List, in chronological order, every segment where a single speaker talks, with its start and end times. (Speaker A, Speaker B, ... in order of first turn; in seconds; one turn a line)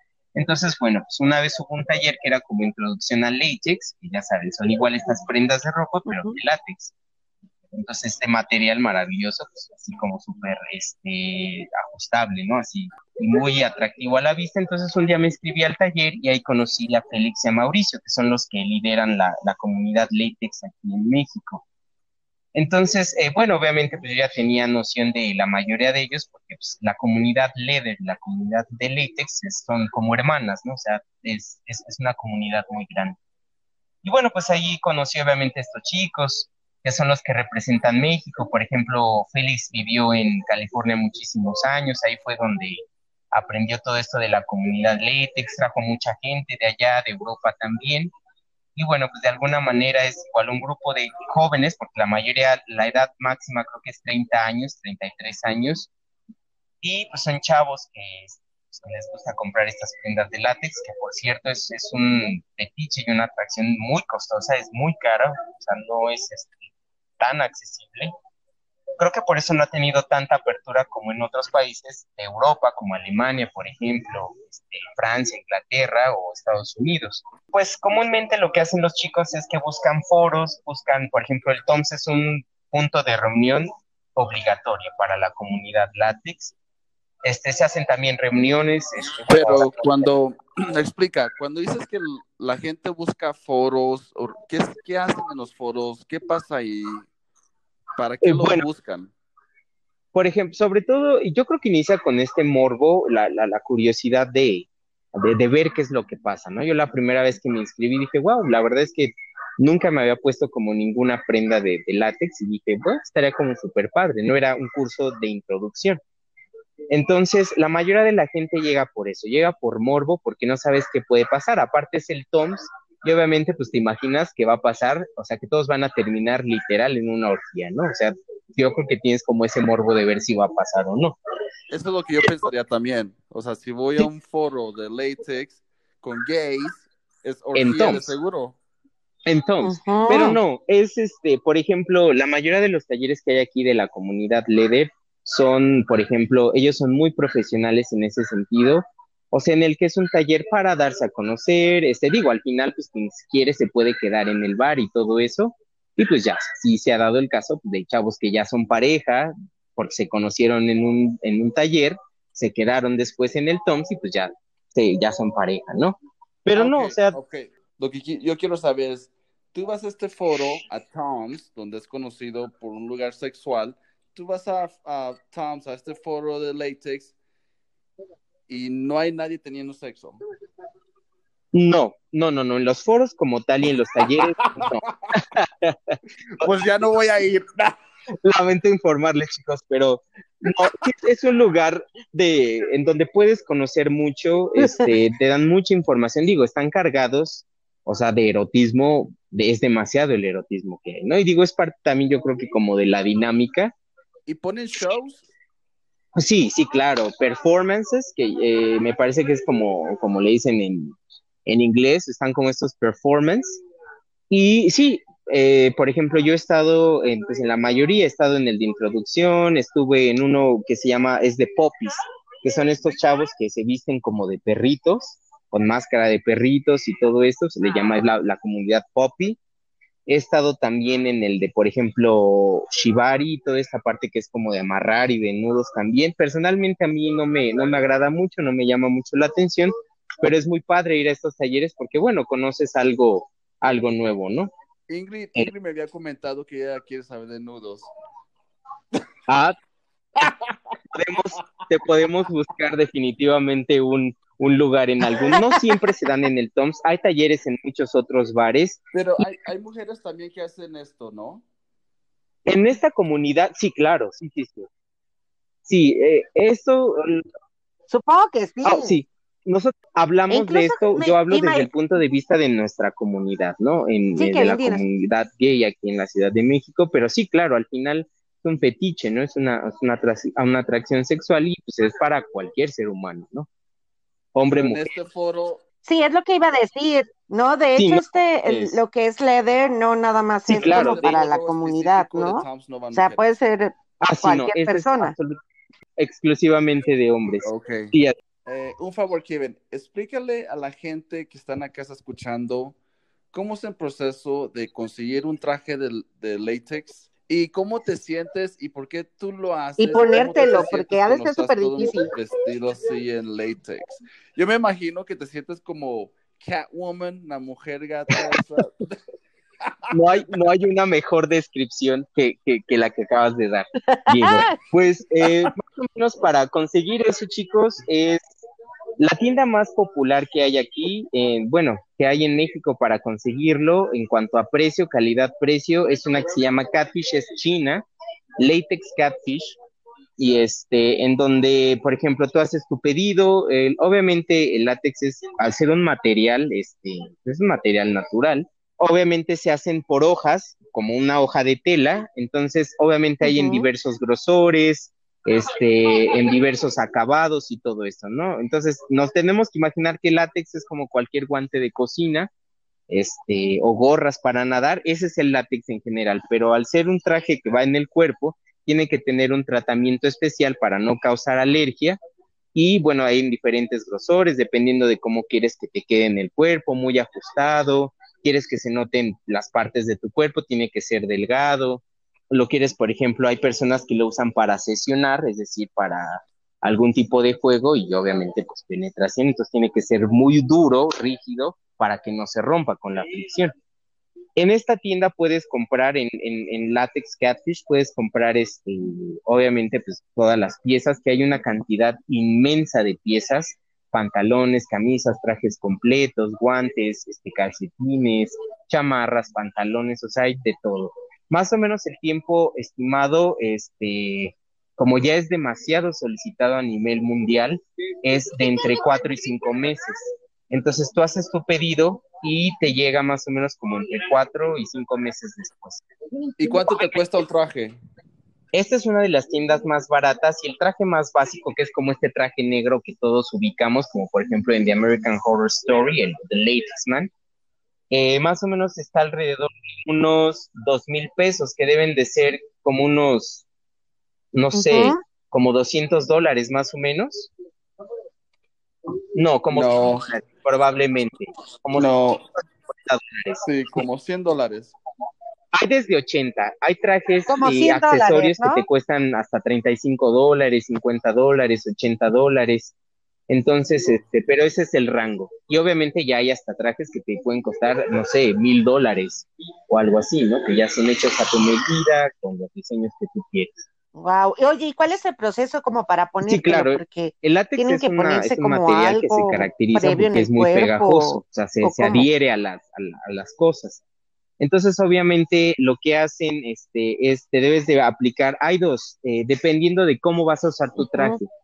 Speaker A: 0.3-6.9
Speaker B: 6.1-6.3
Speaker A: 7.7-21.6
Speaker A: 22.5-33.2
Speaker A: 34.0-48.1
Speaker A: 48.8-55.9
Speaker A: 56.8-66.6
Speaker A: 67.2-68.1
Speaker A: 69.0-86.5
Speaker A: 87.2-90.0
Speaker C: 89.3-97.1
Speaker C: 98.0-99.1
Speaker A: 98.2-98.7
Speaker A: 100.1-116.0
Speaker A: 116.9-131.2
Speaker C: 131.7-138.6
Speaker A: 137.5-138.2
Speaker A: 139.2-167.2
Speaker B: 139.6-140.4
Speaker C: 166.5-177.1
Speaker C: 178.5-180.2
Speaker A: 181.5-186.5
Speaker C: 184.0-185.2
Speaker C: 186.3-187.7
Speaker A: 188.2-203.7
Speaker C: 204.2-205.2
Speaker A: 206.1-210.9
Speaker A: 211.4-213.6
Speaker A: 214.3-229.4
Speaker A: 230.1-244.5
Speaker C: 244.9-247.9
Speaker A: 249.3-249.6
Speaker C: 250.2-250.6
Speaker A: 250.9-258.8
Speaker C: 258.9-261.4
Speaker A: 262.4-264.7
Speaker A: 265.6-267.3
Speaker B: 267.9-269.0
Speaker A: 268.6-283.5
Speaker B: 270.3-271.7
Speaker B: 274.2-274.8
Speaker A: 284.3-284.8
Speaker C: 284.5-285.6
Speaker B: 285.9-295.1
Speaker A: 287.8-288.8
Speaker A: 290.5-291.1
Speaker C: 290.5-293.2
Speaker A: 294.0-295.4
Speaker A: 296.0-298.1
Speaker C: 297.4-297.9
Speaker C: 298.4-302.8
Speaker C: 303.3-319.0
Speaker B: 309.8-312.1
Speaker A: 319.9-328.2
Speaker B: 323.9-324.5
Speaker A: 329.0-337.8
Speaker A: 338.4-339.6
Speaker A: 340.2-362.3
Speaker B: 353.2-353.7
Speaker A: 362.9-372.0
Speaker A: 372.5-393.5
Speaker A: 394.4-425.8
Speaker C: 426.4-427.8
Speaker A: 426.4-427.0
Speaker A: 428.5-437.1
Speaker A: 437.9-443.4
Speaker A: 444.3-447.3
Speaker B: 444.5-445.0
Speaker A: 449.1-451.9
Speaker C: 449.5-450.1
Speaker C: 451.7-452.2
Speaker A: 452.7-453.4
Speaker C: 453.4-454.7
Speaker A: 455.5-462.7
Speaker B: 457.3-458.6
Speaker A: 463.3-473.6
Speaker B: 473.9-482.1
Speaker A: 476.2-483.8
Speaker A: 484.4-491.3
Speaker B: 490.9-491.2